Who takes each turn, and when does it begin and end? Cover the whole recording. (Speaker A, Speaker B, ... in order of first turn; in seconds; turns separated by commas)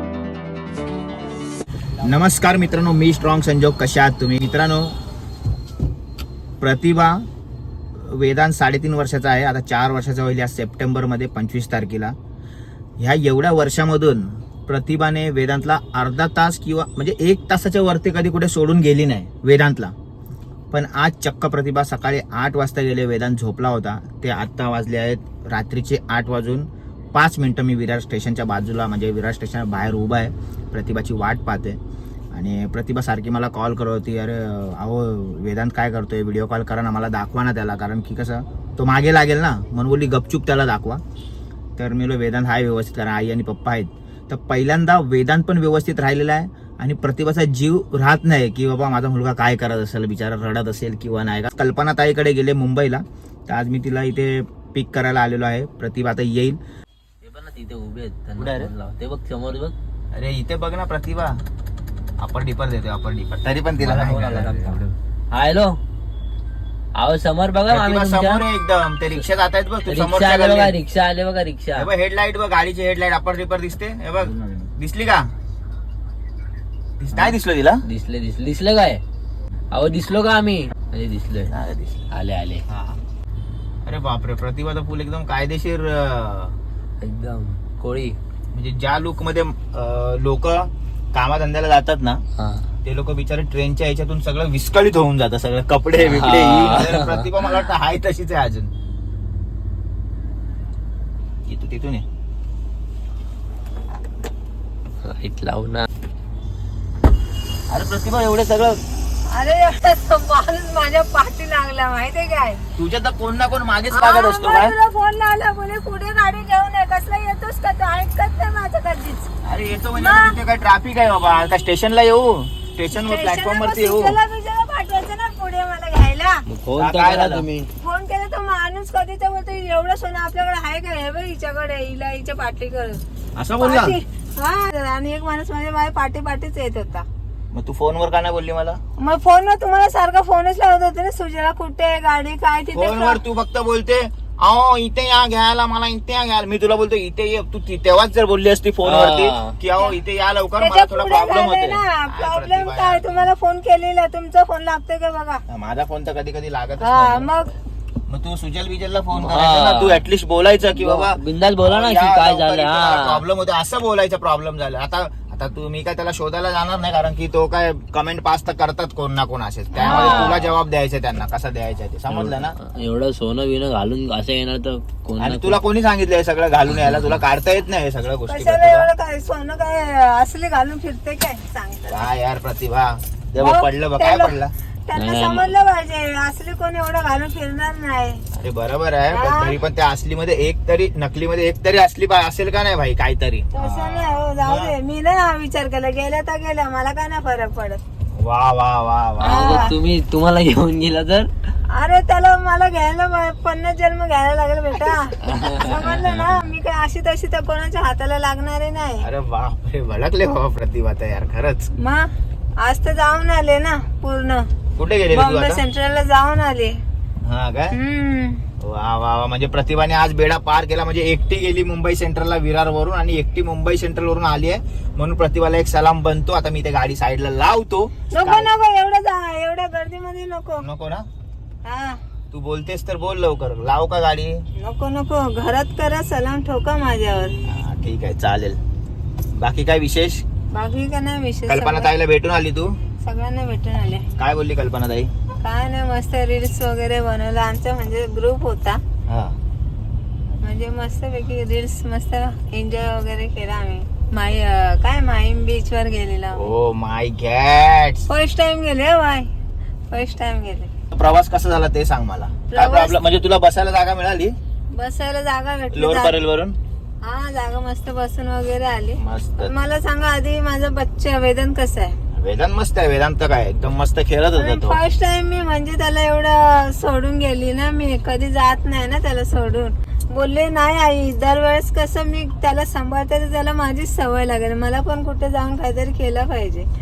Speaker A: 2.0-5.0, Speaker A: 6.6-7.2, Speaker A: 8.0-12.2, Speaker A: 13.0-19.9, Speaker A: 20.7-31.8, Speaker A: 32.3-41.0, Speaker A: 41.8-56.6, Speaker B: 57.2-59.7, Speaker A: 58.4-58.7, Speaker A: 60.1-61.4, Speaker A: 62.2-64.9, Speaker B: 63.8-65.8, Speaker B: 67.0-68.4, Speaker A: 67.7-70.7, Speaker B: 69.9-71.9, Speaker A: 71.8-75.3, Speaker B: 74.2-74.7, Speaker A: 77.0-77.8, Speaker B: 77.1-79.0, Speaker B: 79.7-81.5, Speaker A: 81.5-82.1, Speaker B: 82.1-82.6, Speaker A: 82.7-83.0, Speaker A: 83.8-86.6, Speaker B: 87.0-88.2, Speaker A: 88.5-92.2, Speaker B: 92.4-92.7, Speaker A: 92.8-98.7, Speaker B: 96.0-97.3, Speaker A: 101.5-102.0, Speaker B: 105.0-105.9, Speaker A: 107.7-108.8, Speaker C: 109.3-112.6, Speaker A: 112.8-114.8, Speaker C: 113.9-119.3, Speaker A: 119.4-124.2, Speaker C: 120.0-120.3, Speaker C: 122.9-126.4, Speaker B: 126.5-127.7, Speaker A: 126.8-127.5, Speaker C: 127.8-133.0, Speaker A: 133.4-134.0, Speaker C: 133.6-137.1, Speaker A: 137.5-138.8, Speaker C: 139.0-143.2, Speaker A: 142.8-153.3, Speaker B: 148.8-149.6, Speaker C: 150.6-155.4, Speaker A: 155.5-157.3, Speaker C: 156.8-157.5, Speaker A: 158.1-172.6, Speaker B: 159.1-160.0, Speaker B: 160.7-163.2, Speaker C: 169.8-170.3, Speaker B: 169.8-170.4, Speaker B: 172.1-175.6, Speaker A: 175.2-178.9, Speaker B: 176.7-177.2, Speaker C: 178.3-182.1, Speaker A: 181.9-184.5, Speaker C: 183.4-184.4, Speaker C: 184.9-188.2, Speaker B: 184.9-185.5, Speaker A: 188.4-194.7, Speaker C: 189.1-189.5, Speaker C: 193.6-197.8, Speaker A: 198.2-199.7, Speaker B: 199.2-201.3, Speaker C: 199.2-199.7, Speaker C: 201.7-209.1, Speaker B: 205.3-206.3, Speaker A: 209.0-211.7, Speaker C: 211.8-214.5, Speaker A: 214.8-215.6, Speaker C: 215.1-216.8, Speaker A: 217.2-217.8, Speaker C: 217.7-218.4, Speaker A: 218.6-228.5, Speaker C: 228.1-230.6, Speaker A: 230.6-231.1, Speaker C: 231.7-232.0, Speaker A: 232.3-234.4, Speaker C: 234.6-237.3, Speaker A: 237.5-238.6, Speaker A: 239.3-240.2, Speaker C: 240.5-241.9, Speaker A: 241.5-242.7, Speaker C: 243.0-244.0, Speaker A: 244.2-245.1, Speaker C: 245.4-248.8, Speaker A: 249.1-249.4, Speaker C: 250.4-256.4, Speaker A: 256.4-258.1, Speaker C: 258.1-259.3, Speaker C: 259.9-260.7, Speaker A: 260.9-264.4, Speaker C: 262.5-263.0, Speaker C: 264.7-266.2, Speaker A: 265.7-266.6, Speaker C: 267.0-272.0, Speaker A: 269.0-269.5, Speaker A: 272.1-274.8, Speaker C: 274.4-286.7